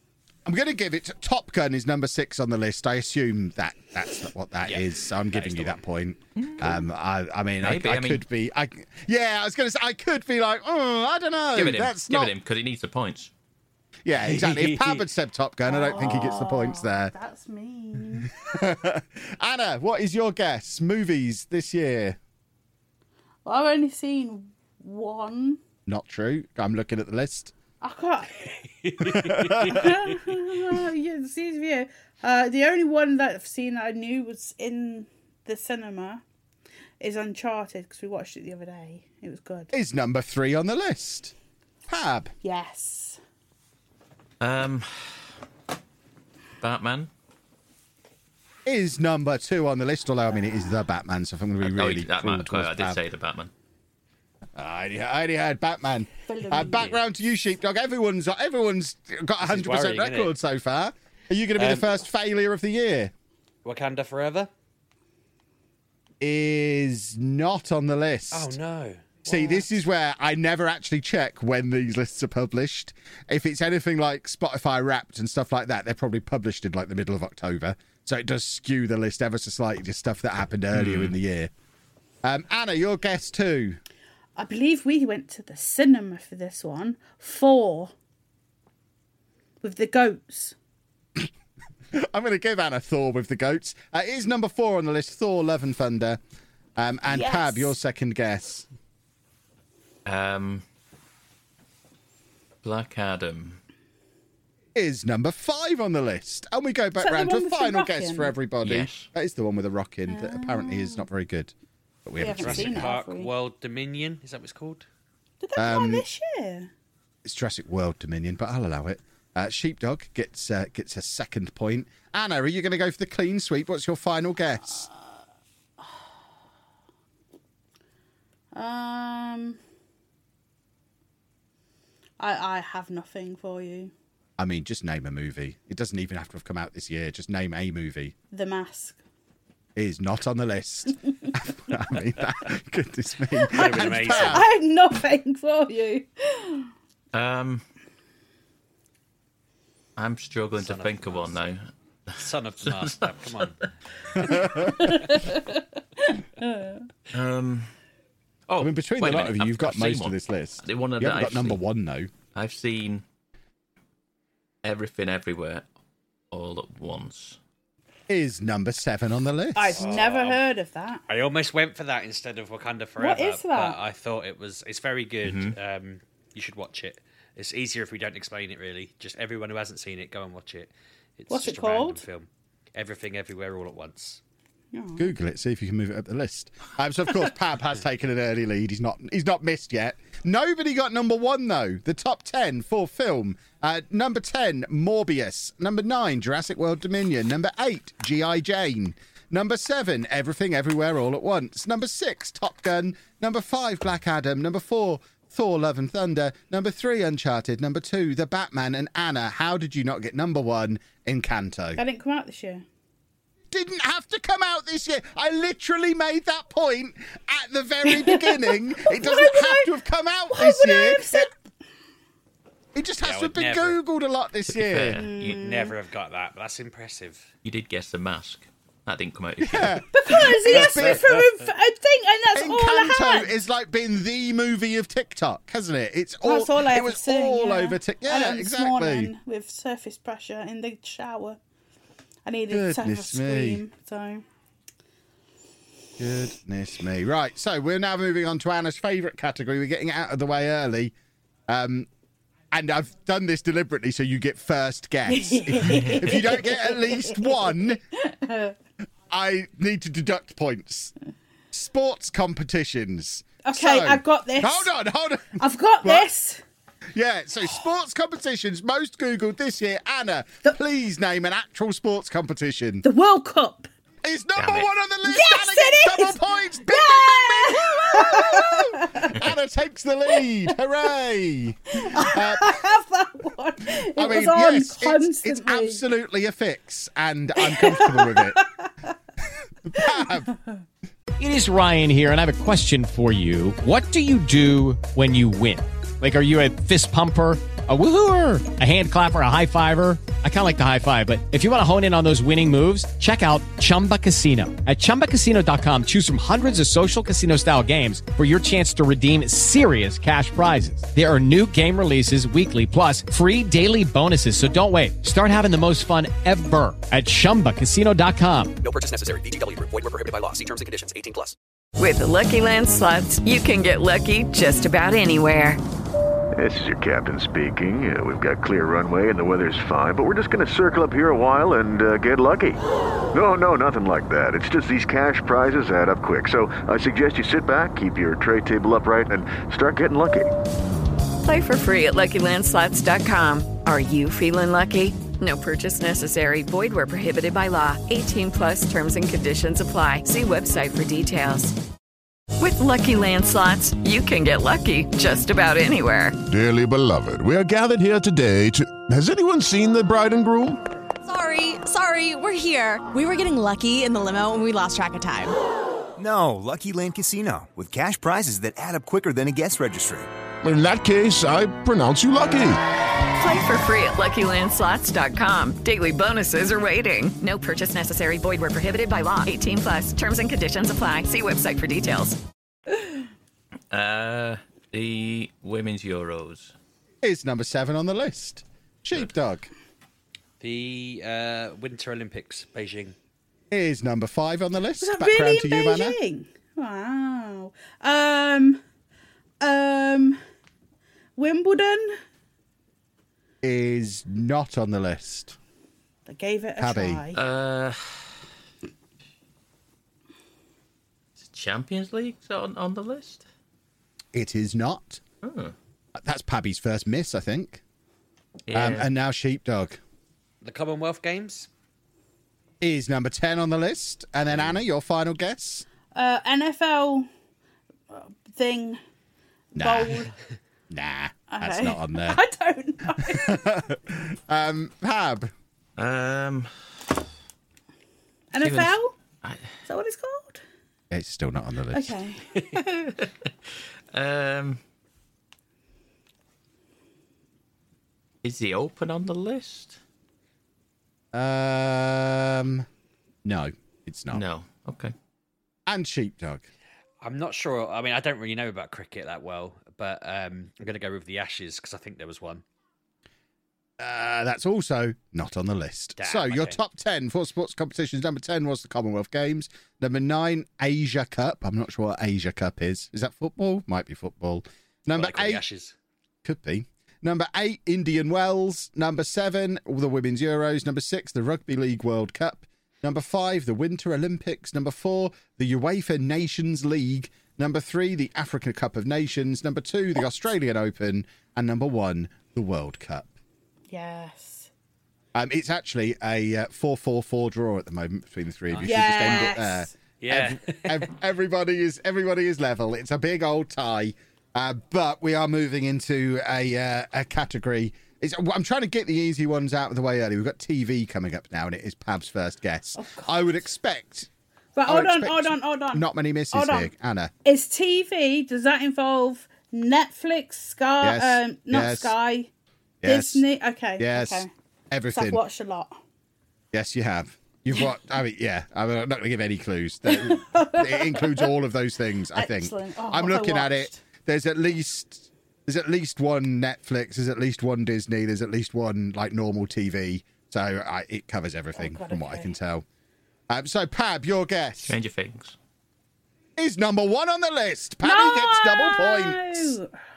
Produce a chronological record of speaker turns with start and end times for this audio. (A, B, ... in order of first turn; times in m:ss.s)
0:00.4-0:12.3 A
0:04.6-0:05.8 B
0:06.4-0:06.8 C
0:07.6-0:08.2 C
0:11.5-0:13.3 C
0:14.0-0:17.1 A
0:14.2-0:15.0 B
0:15.7-0:18.4 D
0:18.5-0:22.2 A
0:23.4-0:25.6 D
0:25.9-0:27.5 A
0:27.8-0:28.5 D
0:28.8-0:29.9 B
0:29.0-0:29.8 A
0:29.4-0:36.2 D
0:37.0-0:39.7 D
0:39.7-0:41.3 A
0:41.9-0:42.3 A
0:42.4-0:43.2 D
0:44.4-0:45.1 C
0:46.6-0:47.1 C
0:48.6-0:53.0 A
0:51.6-0:53.5 C
0:54.6-1:03.1 A
0:56.3-0:56.9 D
0:59.4-1:00.3 B
1:01.6-1:01.9 B
1:03.6-1:04.5 B
1:06.2-1:08.6 A
1:08.3-1:09.2 B
1:09.2-1:21.5 A
1:20.7-1:21.2 C
1:22.2-1:23.8 A
1:24.4-1:27.9 D
1:29.6-1:30.5 D
1:31.9-1:36.2 A
1:36.8-1:38.7 A
1:37.1-1:37.7 D
1:40.0-1:40.6 C
1:42.6-1:43.6 C
1:44.7-1:51.5 A
1:47.0-1:48.3 D
1:48.6-1:49.1 C
1:50.1-1:51.0 D
1:52.0-1:52.9 A
1:52.2-1:53.3 D
1:52.7-1:54.8 B
1:55.4-1:56.7 D
1:55.6-1:56.0 A
1:57.2-2:04.9 A
2:08.5-2:09.6 D
2:12.2-2:13.9 D
2:14.4-2:18.1 A
2:18.3-2:19.0 D
2:19.8-2:24.5 A
2:23.5-2:24.4 B
2:23.6-2:26.7 D
2:27.1-2:27.6 C
2:30.0-2:33.6 C
2:30.5-2:31.4 B
2:32.2-2:33.6 B
2:34.2-2:34.8 A
2:34.6-2:36.8 D
2:37.1-2:37.7 C
2:38.5-2:41.6 C
2:38.6-2:42.1 A
2:42.3-2:43.0 C
2:44.6-2:45.6 C
2:46.3-2:47.4 C
2:48.1-2:49.8 A
2:49.6-2:51.0 D
2:49.8-2:50.4 B
2:51.1-3:04.2 B
2:53.0-2:53.8 D
2:55.2-2:55.6 C
3:01.3-3:02.0 D
3:04.7-3:05.1 D
3:05.0-3:31.8 A
3:31.8-3:32.6 D
3:33.5-3:41.3 A
3:38.8-3:39.7 D
3:40.3-3:41.3 D
3:42.7-3:45.0 A
3:43.0-3:43.8 B
3:44.5-3:45.4 C
3:45.0-3:45.8 D
3:45.2-3:47.3 B
3:47.4-3:49.8 C
3:49.4-3:51.2 A
3:49.9-3:53.3 D
3:52.3-3:59.1 A
3:56.2-4:01.4 D
4:02.2-4:04.2 D
4:02.5-4:03.6 A
4:06.0-4:10.9 A
4:11.5-4:11.9 A
4:12.5-4:17.8 A
4:15.1-4:18.6 D
4:19.1-4:20.9 A
4:21.5-4:26.1 A
4:23.4-4:24.7 D
4:25.4-4:26.4 D
4:26.9-4:32.8 A
4:32.8-4:33.7 D
4:34.0-4:42.6 A
4:34.4-4:34.7 C
4:35.0-4:39.2 D
4:41.8-4:45.8 D
4:43.8-4:48.4 A
4:47.4-4:48.7 D
4:49.6-4:50.3 A
4:49.8-4:50.0 D
4:51.2-5:18.6 E
5:18.6-5:21.3 F
5:21.8-5:25.6 G
5:26.4-5:32.6 H
5:33.1-5:40.3 H
5:41.2-5:51.5 G
5:52.4-5:56.2 G
5:56.3-6:00.6 I
6:01.0-6:05.3 J
6:06.0-6:10.1 K
6:10.4-6:12.6 I
6:13.2-6:22.2 G
6:23.7-6:26.5 C
6:27.0-6:29.5 A
6:30.4-6:32.9 B
6:33.5-6:36.0 A
6:34.8-6:38.6 D
6:39.4-6:40.2 D
6:41.2-6:42.0 D
6:43.4-6:45.4 A
6:46.1-6:47.2 D
6:46.6-6:47.0 A
6:47.1-6:48.1 C
6:51.2-6:53.2 C
6:54.1-6:55.0 A
6:55.2-6:55.5 C
6:55.9-6:57.6 A
6:58.5-6:58.9 C
6:58.5-6:59.8 A
7:00.4-7:01.5 B
7:02.6-7:05.6 A
7:05.9-7:07.1 D
7:07.9-7:08.8 D
7:09.5-7:10.1 A
7:09.5-7:10.1 D
7:10.7-7:12.2 A
7:11.3-7:13.5 D
7:13.0-7:15.3 A
7:15.8-7:16.5 C
7:18.3-7:18.9 D
7:18.4-7:19.4 C
7:19.6-7:20.4 D
7:20.9-7:21.9 A
7:21.7-7:22.3 D
7:22.6-7:23.3 C
7:23.9-7:24.6 C
7:28.2-7:29.8 C
7:31.1-7:32.6 A
7:33.2-7:34.2 A
7:34.1-7:34.9 C
7:35.7-7:36.4 A
7:37.0-7:42.4 B
7:43.8-7:55.4 A
7:46.0-7:46.6 B
7:54.9-7:55.7 B
7:56.2-8:13.1 A
8:13.7-8:14.5 D
8:15.1-8:34.1 A
8:18.5-8:19.3 B
8:18.6-8:19.7 D
8:20.0-8:20.9 B
8:32.8-8:33.3 D
8:34.5-8:36.7 D
8:34.7-8:37.1 A
8:37.2-8:42.3 D
8:40.8-8:41.9 A
8:42.8-8:43.2 A
8:42.8-8:44.3 D
8:43.8-8:45.2 A
8:44.9-8:45.8 D
8:46.5-9:02.6 A
8:49.9-8:51.3 D
8:52.1-8:53.8 D
9:01.6-9:02.3 D
9:03.3-9:04.7 A
9:04.6-9:05.4 C
9:06.4-9:09.6 A
9:07.8-9:09.7 D